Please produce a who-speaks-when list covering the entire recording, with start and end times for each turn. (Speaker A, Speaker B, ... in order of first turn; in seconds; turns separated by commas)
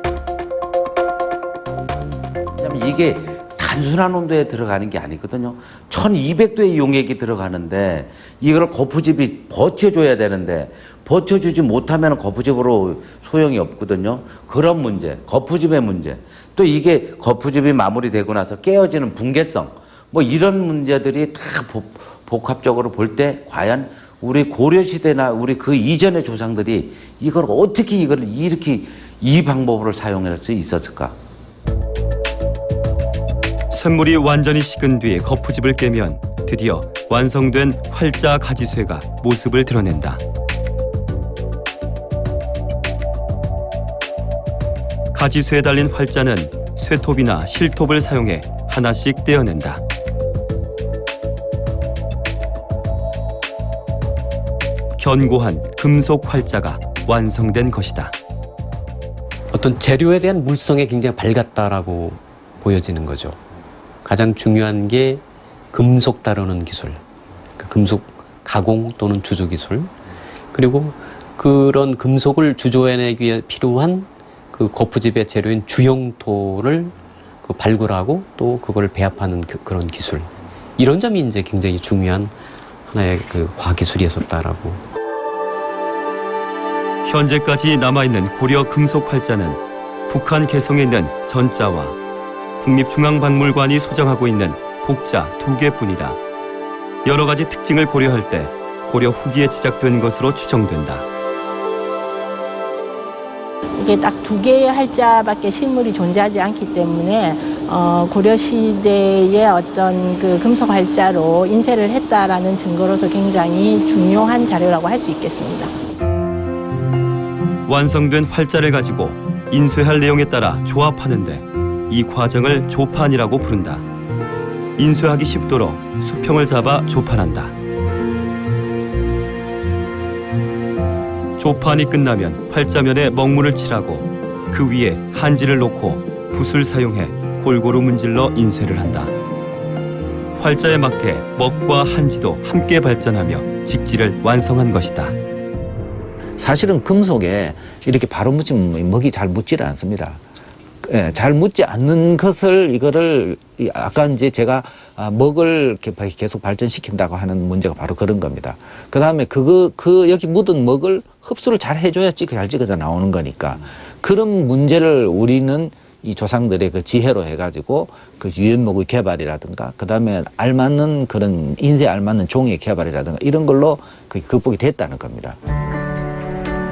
Speaker A: 2.6-31.1, Speaker B: 33.7-40.2, Speaker B: 45.1-49.8, Speaker B: 55.0-58.1, Speaker C: 59.5-63.4, Speaker C: 64.0-65.2, Speaker C: 65.7-67.0, Speaker C: 67.6-69.9, Speaker C: 70.5-82.3, Speaker C: 82.8-84.8, Speaker B: 87.0-92.0, Speaker B: 92.6-96.2, Speaker B: 97.0-101.0, Speaker D: 103.7-115.7, Speaker B: 117.7-123.8, Speaker B: 124.8-127.5, Speaker B: 131.4-139.1, Speaker B: 140.3-145.2, Speaker E: 146.4-150.2, Speaker E: 150.8-175.4